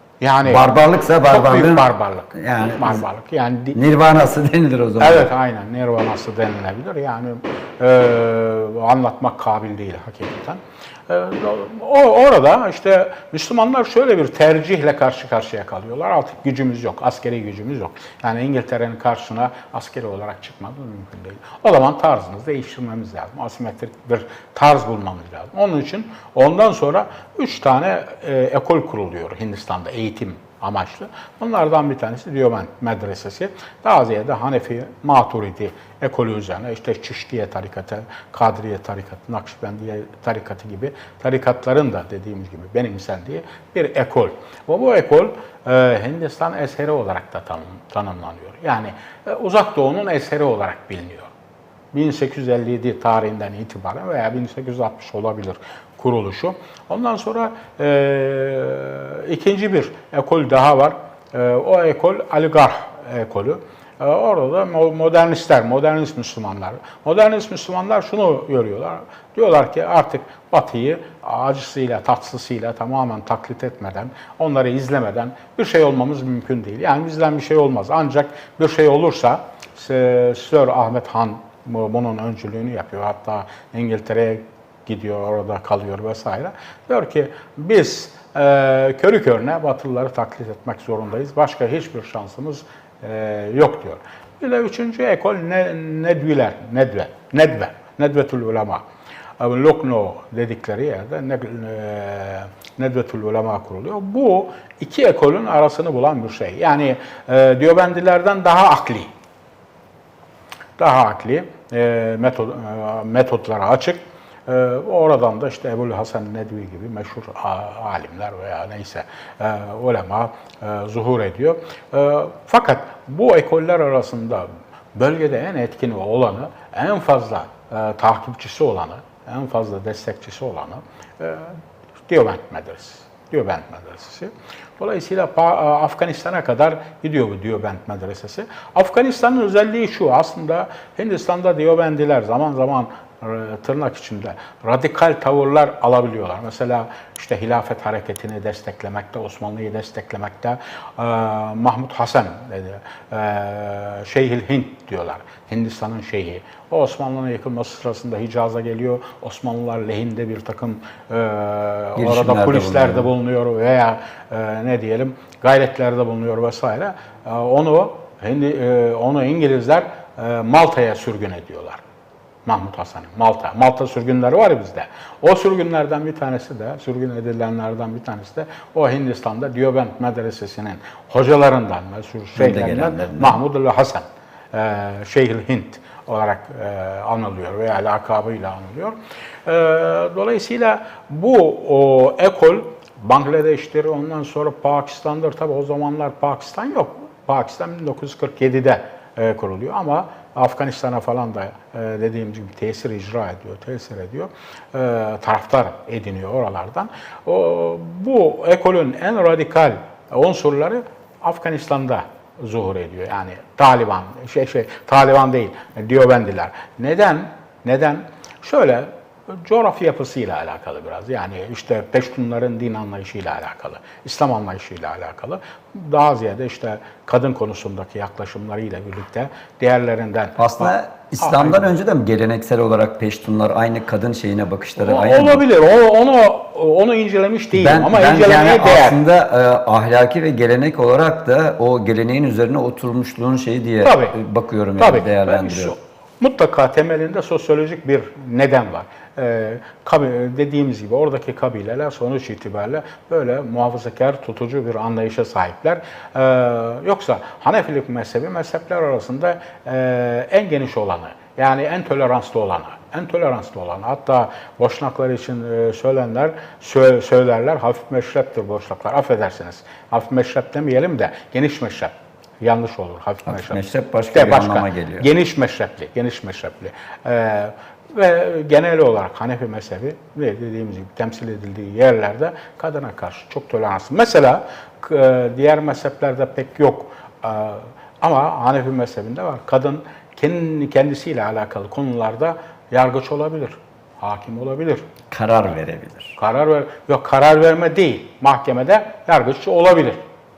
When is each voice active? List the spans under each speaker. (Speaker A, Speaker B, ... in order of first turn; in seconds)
Speaker A: 0.2-0.7, 1.3-3.8, 5.0-51.3, 51.9-98.8, 99.4-109.1, 110.8-171.8, 172.4-231.7, 234.8-239.0, 243.8-244.2, 244.8-294.8, 296.2-300.0
Speaker B: 0.4-3.0, 3.7-5.3, 161.9-163.1, 182.3-183.4, 230.4-235.4, 237.5-245.7, 273.2-275.1, 295.1-296.2